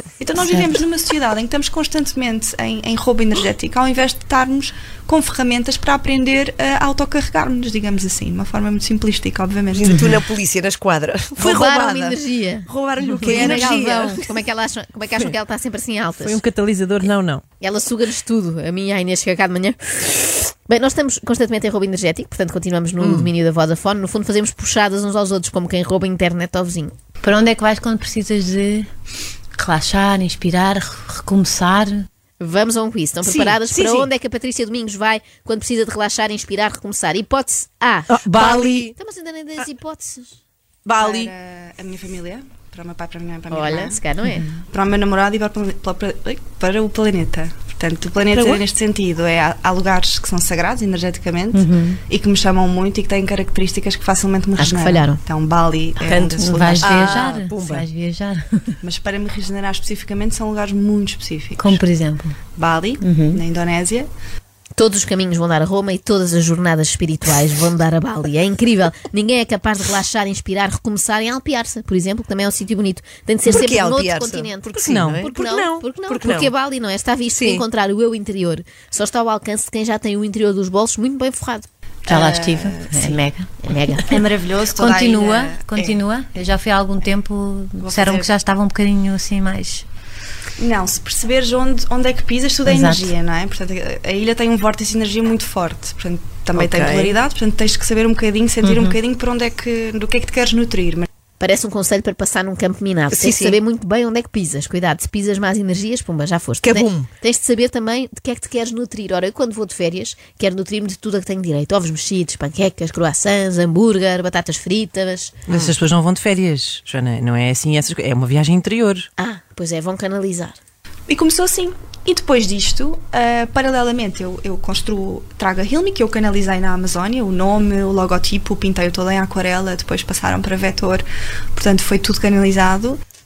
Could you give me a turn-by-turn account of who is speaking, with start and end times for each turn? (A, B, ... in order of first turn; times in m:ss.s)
0:00.2-0:10.2 A
0:09.7-0:14.3 B
0:11.4-0:16.4 C
0:16.2-0:17.4 D
0:17.6-0:27.0 C
0:23.0-0:23.3 B
0:27.2-0:28.9 E
0:29.6-0:32.1 E
0:32.4-0:40.4 C
0:33.2-0:34.1 B
0:38.1-0:38.9 D
0:40.8-0:41.3 D
0:41.0-0:44.0 A
0:43.5-0:44.4 C
0:44.2-0:44.5 E
0:44.7-0:57.2 A
0:51.5-0:52.0 E
0:54.6-0:55.2 C
0:56.0-0:57.9 B
0:56.4-0:58.8 E
0:58.8-1:01.8 A
1:01.6-1:02.4 E
1:02.6-1:04.1 A
1:03.0-1:03.4 E
1:04.8-1:21.7 C
1:13.5-1:16.5 B
1:14.8-1:15.3 D
1:17.3-1:17.6 B
1:22.0-1:23.2 A
1:22.1-1:24.2 E
1:23.6-1:24.0 C
1:24.1-1:26.0 A
1:24.7-1:29.8 E
1:27.8-1:28.3 A
1:30.6-1:41.1 A
1:32.7-1:33.2 E
1:36.6-1:37.2 B
1:38.6-1:39.0 E
1:41.4-1:55.4 C
1:43.1-1:43.6 B
1:46.6-1:47.1 B
1:55.5-1:55.7 B
1:55.5-1:59.1 D
1:59.2-2:00.6 C
2:01.1-2:11.0 A
2:11.6-2:13.0 A